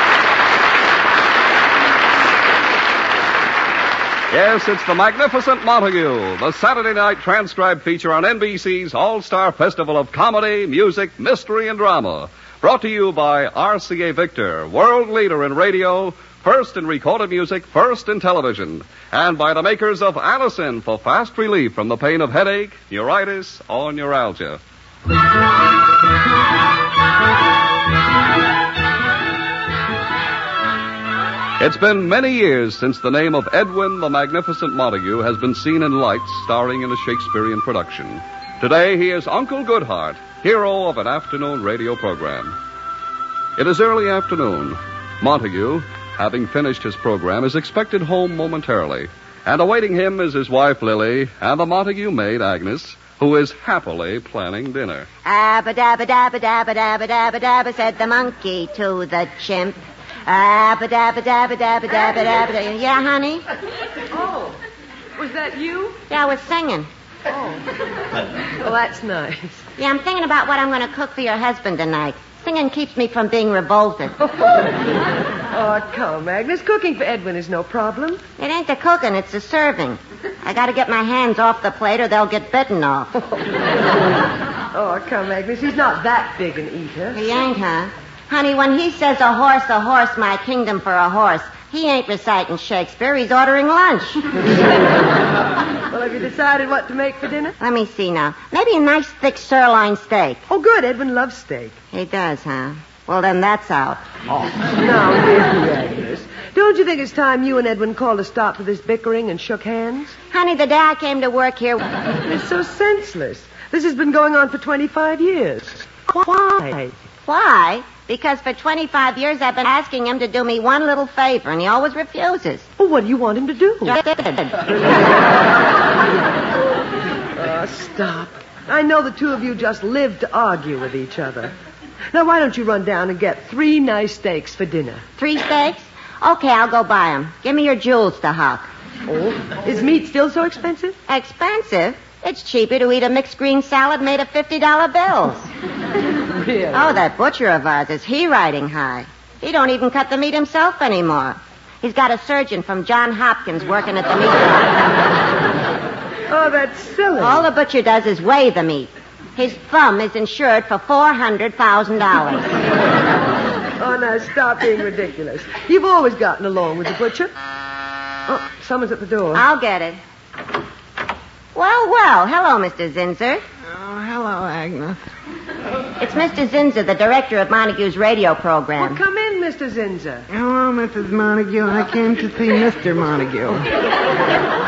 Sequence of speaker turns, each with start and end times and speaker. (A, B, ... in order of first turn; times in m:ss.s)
0:04.3-0:24.6 A
0:31.6-0:42.6 A
0:43.6-0:55.1 A
0:55.2-1:03.4 B
1:04.1-1:04.6 C
1:05.2-1:06.0 C
1:06.1-1:06.9 B
1:07.3-1:07.6 C
1:08.6-1:09.6 C
1:09.8-1:14.3 B
1:15.5-1:18.2 C
1:18.4-1:23.2 B
1:24.7-1:27.3 C
1:27.1-1:34.2 B
1:35.9-1:37.6 C
1:37.6-1:40.4 B
1:40.5-1:41.8 C
1:41.9-1:44.0 B
1:44.6-1:50.2 C
1:50.3-1:51.8 B
1:52.2-1:57.0 C
1:57.3-2:02.7 B
2:02.8-2:04.0 C
2:03.9-2:04.7 B
2:07.4-2:11.5 C
2:12.1-2:15.0 C
2:15.2-2:18.6 B
2:19.1-2:21.0 C
2:21.1-2:25.4 B
2:26.3-2:27.0 C
2:26.7-2:34.9 B
2:36.3-2:37.5 C
2:37.2-2:42.5 B
2:43.8-2:47.3 C
2:48.3-2:49.4 C
2:49.3-2:50.0 B
2:51.6-2:53.4 B
2:53.6-2:55.0 D
2:56.0-2:59.0 B
2:58.8-3:00.3 C
3:00.3-3:03.7 D